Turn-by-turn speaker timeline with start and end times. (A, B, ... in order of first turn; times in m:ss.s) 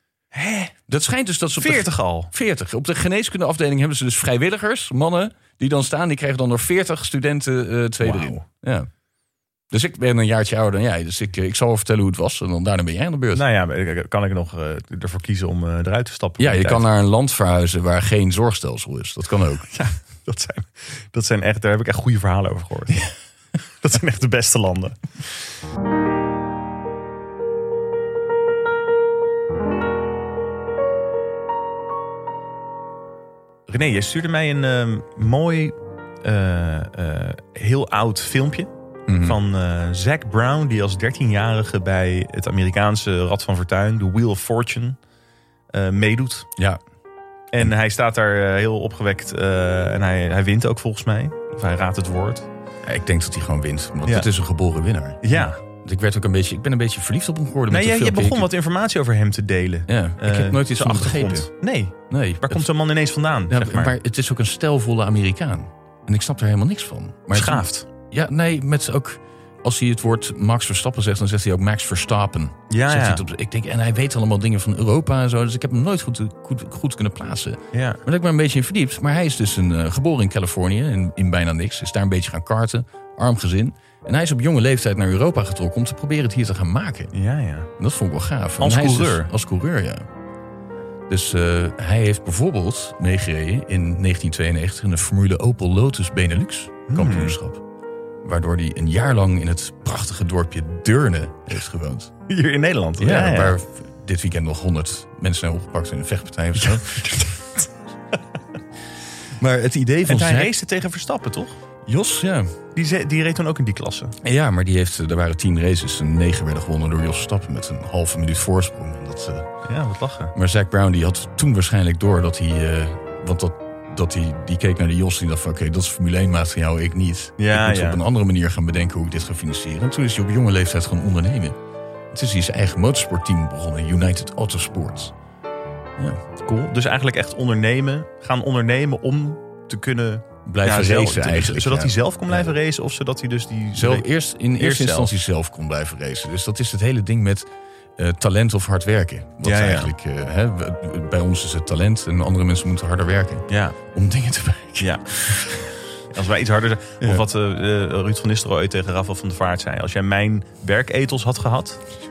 0:00.3-0:00.7 A
0:00.9-0:08.9 B
0:01.6-0:02.3 A
0:08.0-0:08.4 A
0:09.7-0:13.4 B
0:13.3-0:16.8 A
0:16.4-0:19.7 B
0:19.7-0:23.1 A
0:23.8-0:25.5 A
0:33.7-0:45.0 A
0:39.1-0:39.4 B
0:45.7-0:46.5 A
0:47.5-0:52.5 A
0:52.8-0:58.5 B
0:55.2-0:55.6 A
0:57.7-1:04.0 A
0:59.9-1:02.7 B
1:03.5-1:27.1 B
1:07.3-1:07.9 A
1:12.7-1:13.2 A
1:17.7-1:18.0 A
1:27.1-1:27.7 A
1:27.8-1:30.1 B
1:28.6-1:29.3 A
1:31.1-1:37.6 B
1:36.9-1:37.4 A
1:38.2-1:42.1 B
1:42.3-1:43.6 A
1:43.0-1:47.2 B
1:46.6-1:47.7 A
1:49.4-1:50.5 B
1:50.0-1:51.6 A
1:51.9-1:52.6 B
1:52.7-1:54.2 A
1:54.2-1:59.5 B
1:59.6-2:00.3 A
2:00.3-2:11.6 B
2:07.4-2:08.0 A
2:12.1-2:15.1 B
2:16.4-2:25.1 A
2:20.5-2:22.6 B
2:23.7-2:35.7 B
2:29.4-2:29.9 A
2:33.5-2:33.8 A
2:34.8-2:35.5 A
2:36.1-2:41.8 A